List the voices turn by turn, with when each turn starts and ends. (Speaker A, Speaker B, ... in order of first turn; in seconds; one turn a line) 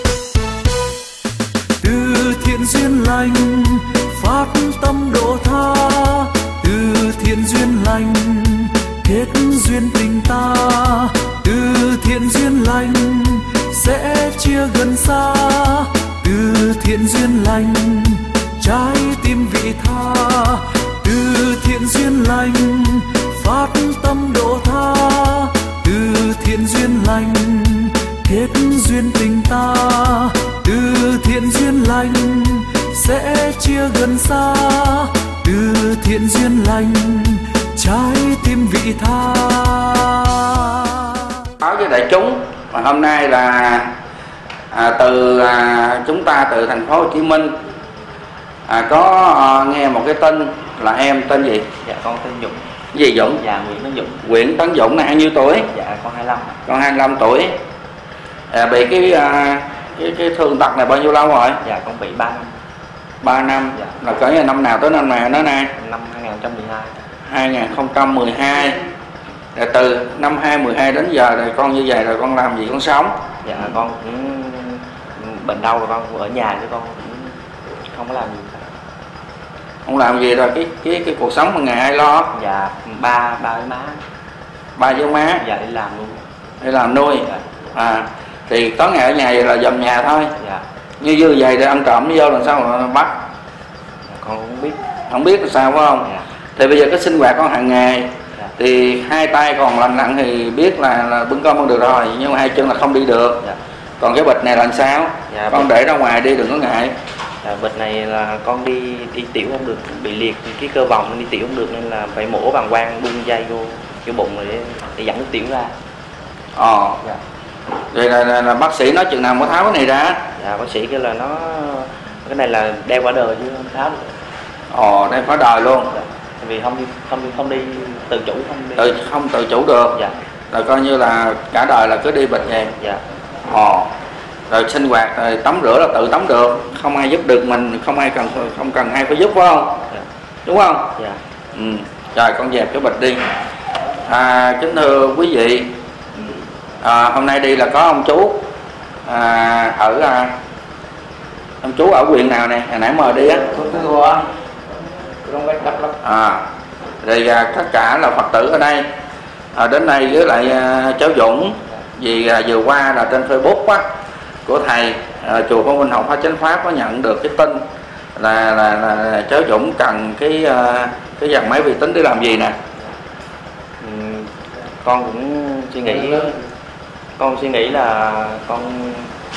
Speaker A: 1.8-41.4
Speaker B: 41.6-43.9
Speaker B: 44.7-47.6
Speaker B: 48.7-51.7
Speaker C: 51.8-52.6
Speaker B: 52.9-53.4
Speaker C: 53.2-54.2
Speaker B: 54.2-55.7
Speaker C: 55.7-56.6
Speaker B: 56.6-57.6
Speaker B: 58.5-61.6
Speaker C: 61.6-62.5
Speaker B: 63.2-65.7
Speaker C: 65.7-67.0
Speaker B: 67.3-68.8
Speaker B: 69.5-73.1
Speaker C: 73.4-77.3
Speaker C: 77.9-78.7
Speaker B: 79.8-82.3
Speaker C: 82.3-84.0
Speaker B: 84.8-85.4
Speaker C: 85.2-86.2
Speaker B: 86.6-90.3
Speaker B: 91.0-93.2
Speaker C: 94.1-94.8
Speaker B: 95.1-103.4
Speaker B: 104.0-106.9
Speaker C: 105.3-105.7
Speaker C: 107.4-115.7
Speaker B: 116.5-117.0
Speaker B: 117.9-120.2
Speaker C: 120.4-124.1
Speaker B: 124.7-125.9
Speaker C: 125.9-128.9
Speaker B: 128.8-130.0
Speaker B: 130.5-132.7
Speaker B: 133.5-133.9
Speaker B: 134.5-139.8
Speaker B: 140.4-141.0
Speaker B: 141.5-143.2
Speaker B: 144.1-145.7
Speaker B: 146.8-148.5
Speaker B: 149.1-150.3
Speaker B: 151.6-154.2
Speaker C: 153.6-154.2
Speaker C: 155.2-155.9
Speaker B: 156.0-156.4
Speaker B: 157.0-158.9
Speaker B: 159.5-163.8
Speaker B: 164.4-167.6
Speaker B: 168.2-172.6
Speaker C: 173.8-174.3
Speaker C: 174.8-176.4
Speaker C: 177.2-179.1